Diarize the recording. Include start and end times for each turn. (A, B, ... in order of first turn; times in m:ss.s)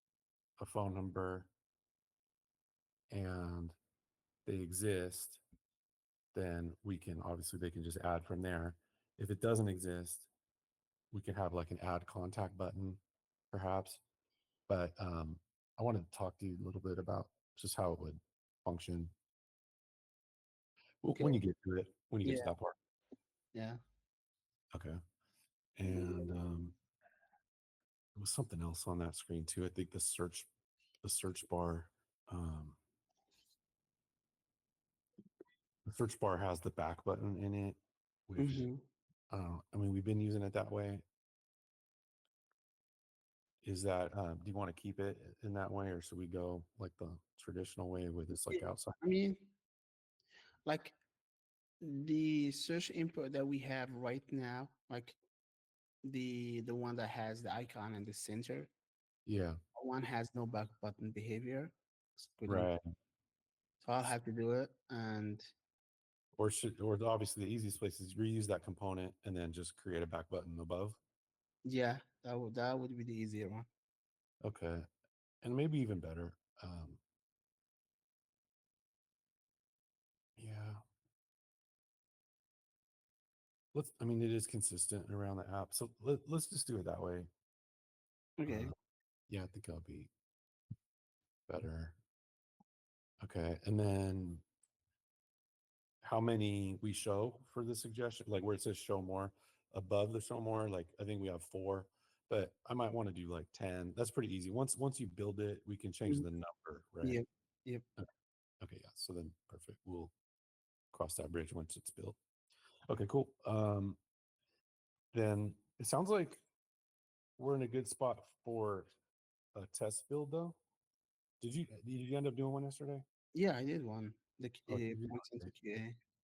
0:00.6-0:01.5 A
0:03.1-0:03.8 A
0:04.4-0:05.4 A
0:06.3-0:10.3 A
0:11.1-0:13.0 A
0:13.5-0:14.0 A
0:14.7-0:19.1 A
0:21.0-0:22.7 A
0:22.2-0:22.5 B
0:23.5-0:23.8 B
0:24.7-0:25.0 A
0:25.8-0:26.8 A
0:25.9-0:26.3 B
0:28.2-0:30.5 A
0:31.0-0:32.8 A
0:35.8-0:38.7 A
0:38.4-0:38.8 B
0:39.3-0:41.0 A
0:43.6-0:49.0 A
0:48.5-0:49.5 B
0:50.6-0:51.0 B
0:51.8-0:55.2 B
0:56.0-0:58.7 B
0:59.2-0:59.6 A
0:59.7-1:02.7 B
1:02.5-1:02.8 A
1:03.8-1:05.5 B
1:06.4-1:11.0 A
1:11.6-1:13.7 B
1:14.4-1:14.9 A
1:15.4-1:17.0 A
1:20.4-1:20.8 A
1:23.7-1:27.3 A
1:28.4-1:28.7 B
1:28.5-1:28.7 A
1:29.3-1:30.1 A
1:31.5-1:32.0 A
1:33.2-1:34.4 A
1:36.0-1:47.2 A
1:47.0-1:47.8 B
1:48.6-1:50.1 A
1:50.9-1:52.2 A
1:52.9-1:54.0 A
1:55.1-1:56.4 A
1:57.4-1:58.9 A
1:59.5-2:00.6 A
2:01.4-2:03.0 A
2:03.3-2:06.0 B
2:04.7-2:05.5 A